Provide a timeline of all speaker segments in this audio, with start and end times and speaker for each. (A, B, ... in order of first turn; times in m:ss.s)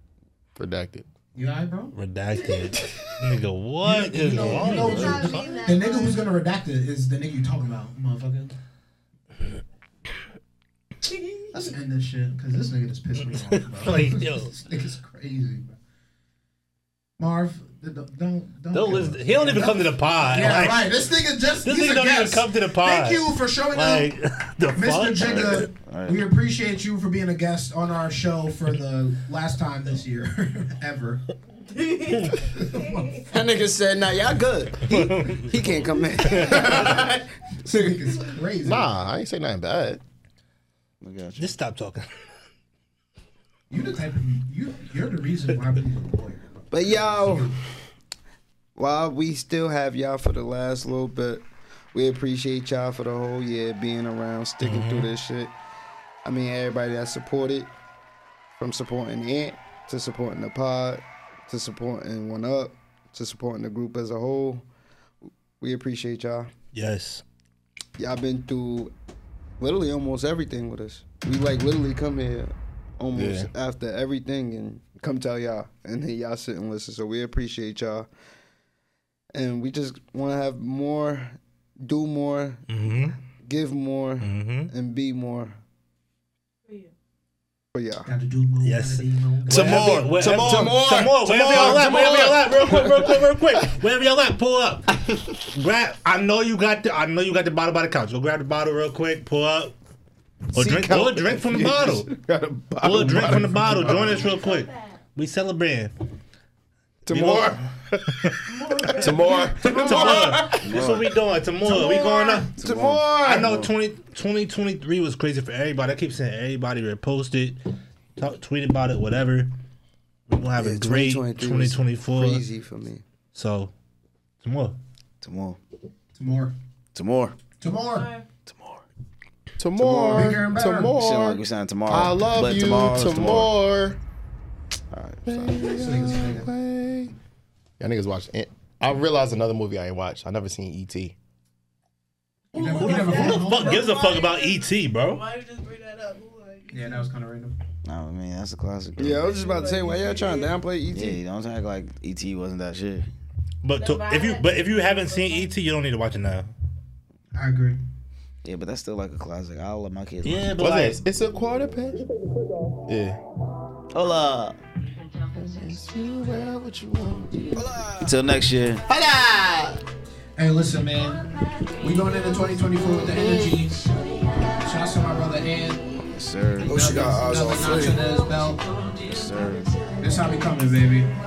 0:00.6-0:01.1 A
0:01.4-0:01.9 B
0:01.9-0:05.6 C
0:02.4-0:02.7 D
0:02.8-0:03.0 A
0:03.8-0:08.5 B
0:04.4-0:06.3 D
0:11.0-0:11.7 D
0:11.5-0:15.8 B
0:13.2-0:14.5 C
0:17.2-0:24.1 B
0:18.7-0:21.0 C
0:21.6-0:25.7 C
0:24.8-0:31.2 B
0:25.4-0:26.2 E
0:31.6-0:33.4 D
0:32.4-0:33.2 B
0:33.3-0:38.1 F
0:34.9-0:35.5 C
0:36.2-0:37.0 C
0:36.2-0:38.9 B
0:38.6-0:40.0 A
0:41.0-0:41.5 E
0:41.4-0:42.1 C
0:43.7-0:47.6 B
0:46.7-0:47.6 F
0:48.8-0:55.5 F
0:54.6-0:55.1 C
0:56.2-0:57.7 F
0:58.6-1:04.6 F
1:05.6-1:06.5 F
1:06.7-1:07.2 C
1:08.0-1:08.9 F
1:09.6-1:18.1 F
1:13.1-1:13.5 A
1:19.3-1:22.6 F
1:22.7-1:23.2 C
1:23.3-1:25.6 F
1:24.2-1:24.7 C
1:26.7-1:26.9 D
1:27.7-1:28.1 F
1:28.0-1:29.9 B
1:28.6-1:39.8 C
1:29.5-1:33.1 A
1:29.7-1:30.8 E
1:29.7-1:32.3 F
1:40.5-1:42.1 C
1:40.5-1:42.3 F
1:40.7-1:44.4 A
1:42.8-1:45.9 C
1:42.9-1:44.0 F
1:43.9-1:45.0 D
1:47.1-1:47.6 F
1:47.1-1:48.4 C
1:47.9-1:48.3 A
1:48.4-1:50.2 D
1:49.0-1:50.5 A
1:49.6-1:50.6 F
1:49.7-1:52.5 C
1:50.5-1:51.0 E
1:51.6-1:53.5 F
1:52.0-1:52.5 D
1:52.6-1:53.7 E
1:53.2-1:57.6 C
1:58.2-1:59.5 C
2:00.3-2:02.4 C
2:00.6-2:03.0 F
2:03.3-2:03.7 C
2:04.4-2:04.8 C
2:05.2-2:05.6 E
2:06.2-2:06.5 B
2:06.9-2:07.4 E
2:07.6-2:08.1 B
2:07.9-2:08.3 D
2:08.5-2:08.8 E
2:09.6-2:14.0 A
2:09.8-2:10.4 F
2:10.1-2:10.9 B
2:10.9-2:13.5 E
2:14.9-2:15.7 E
2:15.3-2:17.1 A
2:15.7-2:16.5 B
2:17.8-2:21.2 A
2:22.5-2:23.9 B
2:22.5-2:27.1 D
2:22.6-2:25.2 C
2:26.7-2:27.6 B
2:27.8-2:29.4 E
2:29.0-2:31.2 F
2:29.1-2:30.6 D
2:30.9-2:33.1 E
2:33.6-2:36.5 C
2:33.8-2:35.6 D
2:37.3-2:37.8 B
2:38.4-2:40.6 E
2:40.2-2:41.0 C
2:40.6-2:42.0 A
2:42.8-2:43.2 A
2:43.9-2:44.6 E
2:45.4-2:47.6 A
2:47.6-2:48.8 E
2:48.9-2:49.8 A
2:50.4-2:51.2 B
2:51.8-2:53.9 B
2:54.6-2:55.9 B
2:56.1-2:56.8 E
2:56.6-2:58.0 F
2:56.6-2:58.6 B
2:59.0-2:59.8 E
3:00.0-3:01.1 B